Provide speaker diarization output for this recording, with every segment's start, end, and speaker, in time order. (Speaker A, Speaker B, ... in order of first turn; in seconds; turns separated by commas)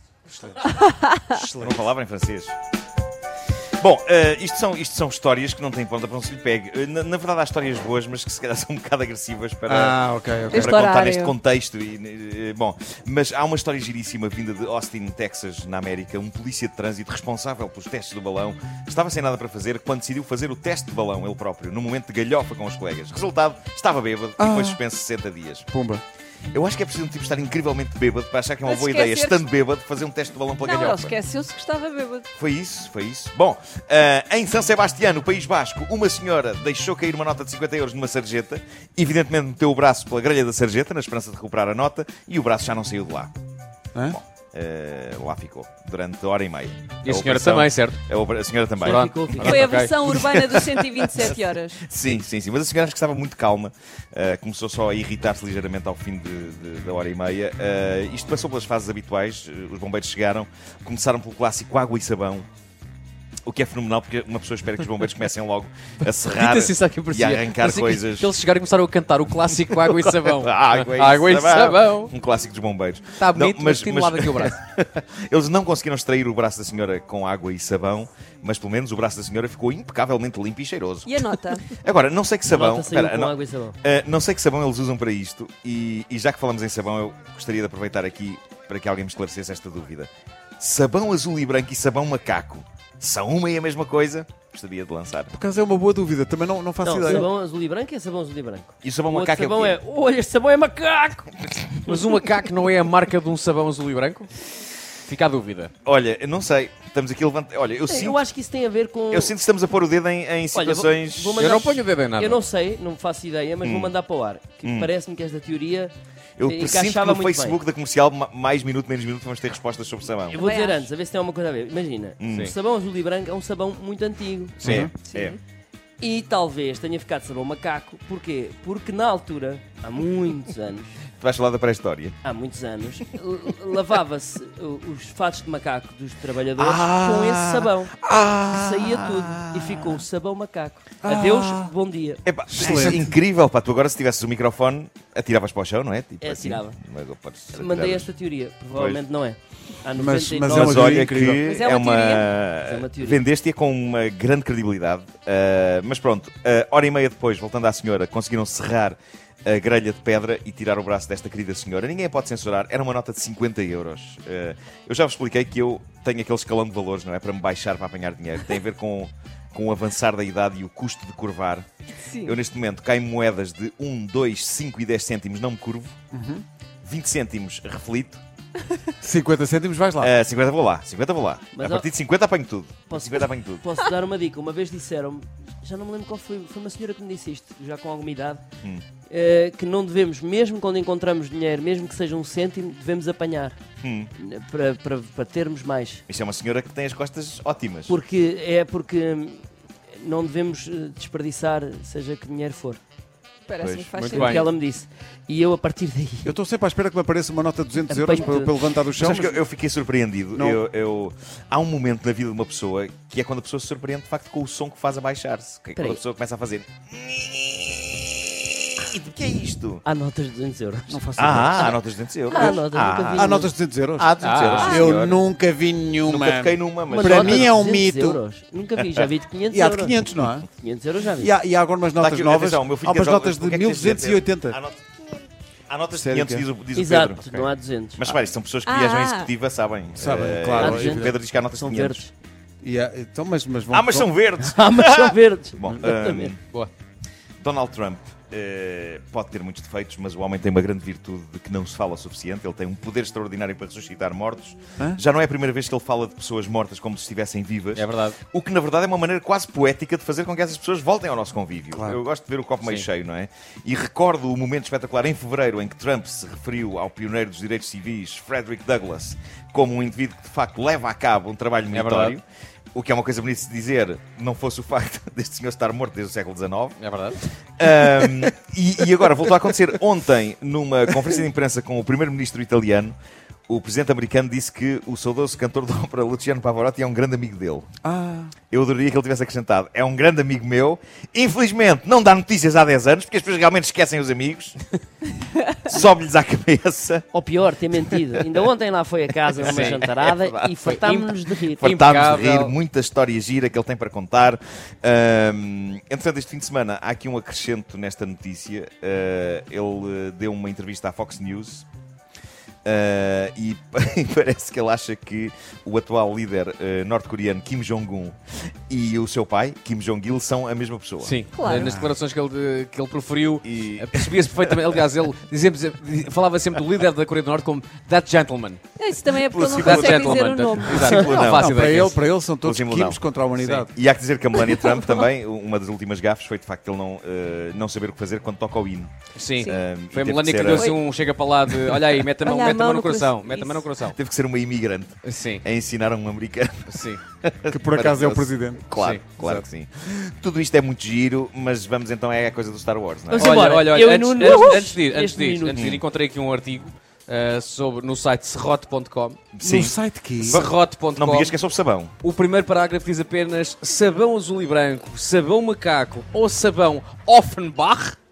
Speaker A: 0.3-0.7, Speaker B: 1.0-1.4, Speaker A: 1.3-1.8, Speaker C: 1.6-2.5, Speaker C: 3.8-25.7, Speaker A: 9.7-10.7, Speaker B: 10.5-11.4, Speaker A: 24.4-24.8, Speaker A: 25.7-26.0, Speaker C: 26.5-31.2, Speaker B: 28.6-29.5, Speaker B: 30.6-32.2, Speaker C: 32.3-43.3, Speaker C: 44.1-62.5, Speaker D: 47.0-48.0, Speaker D: 48.8-49.9, Speaker E: 48.8-49.7, Speaker B: 49.4-51.8, Speaker C: 63.5-68.3, Speaker D: 66.3-72.1, Speaker C: 69.7-95.3, Speaker D: 73.2-74.6, Speaker B: 81.0-81.7, Speaker E: 82.5-83.8, Speaker A: 95.3-97.3, Speaker E: 96.8-101.5, Speaker C: 98.8-99.8, Speaker D: 101.8-104.3, Speaker D: 105.0-105.7, Speaker C: 105.8-108.2, Speaker E: 107.8-109.3, Speaker C: 109.1-111.7, Speaker E: 110.5-117.6, Speaker D: 111.4-112.4, Speaker C: 113.6-114.0, Speaker C: 114.6-114.9, Speaker C: 116.4-120.4, Speaker E: 120.3-124.6, Speaker B: 120.3-120.8, Speaker C: 122.2-122.5, Speaker C: 124.6-125.4, Speaker A: 124.6-124.9, Speaker B: 125.0-125.4, Speaker E: 126.0-130.9, Speaker C: 131.2-132.2, Speaker E: 132.2-142.2, Speaker C: 136.6-140.0, Speaker A: 141.0-141.7, Speaker C: 142.2-148.1, Speaker A: 142.5-143.2, Speaker E: 146.2-146.8, Speaker E: 147.5-153.2, Speaker C: 148.7-149.0, Speaker A: 150.0-151.4, Speaker C: 150.5-171.7, Speaker B: 172.1-172.3, Speaker C: 172.2-175.9, Speaker A: 176.1-176.4, Speaker C: 176.8-178.2, Speaker A: 179.0-180.1, Speaker C: 180.0-183.6, Speaker E: 181.5-181.9, Speaker E: 182.9-188.4, Speaker E: 189.1-193.6, Speaker C: 193.8-194.1, Speaker E: 194.2-196.0, Speaker C: 196.1-197.9, Speaker E: 197.9-199.4, Speaker E: 200.0-202.8, Speaker B: 203.4-204.5, Speaker C: 203.6-204.3, Speaker D: 203.9-204.5, Speaker E: 204.1-206.3, Speaker A: 206.2-209.4, Speaker E: 207.8-209.3, Speaker C: 209.0-218.1, Speaker A: 210.3-210.6, Speaker E: 215.8-216.0, Speaker C: 218.8-219.8, Speaker E: 219.8-221.0, Speaker A: 220.9-221.8, Speaker C: 221.2-223.3, Speaker E: 222.3-223.5, Speaker A: 222.3-222.6, Speaker A: 223.1-228.2, Speaker C: 224.0-225.2, Speaker D: 224.2-225.1, Speaker B: 224.7-224.9, Speaker C: 226.0-227.5, Speaker E: 226.9-231.3, Speaker A: 229.5-230.4, Speaker A: 231.2-234.6, Speaker C: 231.9-237.2, Speaker A: 235.9-236.4, Speaker E: 236.8-238.2, Speaker C: 238.0-242.1, Speaker B: 238.7-239.3, Speaker A: 239.9-241.2, Speaker E: 240.6-242.1, Speaker A: 242.6-244.1, Speaker C: 243.7-246.4, Speaker E: 244.4-246.3, Speaker C: 247.4-272.2, Speaker D: 257.7-258.2, Speaker A: 261.7-262.0, Speaker D: 262.6-262.9, Speaker D: 271.7-272.2, Speaker C: 272.7-276.8, Speaker D: 276.8-277.2, Speaker C: 277.6-283.0, Speaker C: 283.5-287.7, Speaker A: 287.8-288.3, Speaker C: 288.5-294.8, Speaker C: 295.6-297.1, Speaker E: 297.1-301.6, Speaker C: 297.7-298.1, Speaker C: 299.3-300.6, Speaker D: 299.4-299.8, Speaker D: 300.6-302.6, Speaker C: 301.5-311.6, Speaker C: 312.6-318.2, Speaker C: 318.7-321.2, Speaker D: 321.0-332.0, Speaker B: 321.3-321.8, Speaker A: 321.5-321.9, Speaker C: 323.4-324.6, Speaker B: 328.8-331.1, Speaker C: 329.1-331.6, Speaker A: 331.1-333.7, Speaker C: 332.4-333.0, Speaker D: 333.4-333.7, Speaker C: 333.7-340.7, Speaker B: 334.4-334.9, Speaker D: 339.2-344.0, Speaker B: 340.4-340.8, Speaker B: 342.2-343.7, Speaker C: 343.8-353.5, Speaker D: 345.0-345.4, Speaker D: 346.7-347.0, Speaker A: 347.5-348.7, Speaker D: 348.7-349.5, Speaker E: 353.1-355.8, Speaker D: 353.1-359.2, Speaker C: 355.5-355.8, Speaker C: 359.3-361.9, Speaker A: 359.4-360.5, Speaker D: 360.2-361.4, Speaker D: 362.0-368.0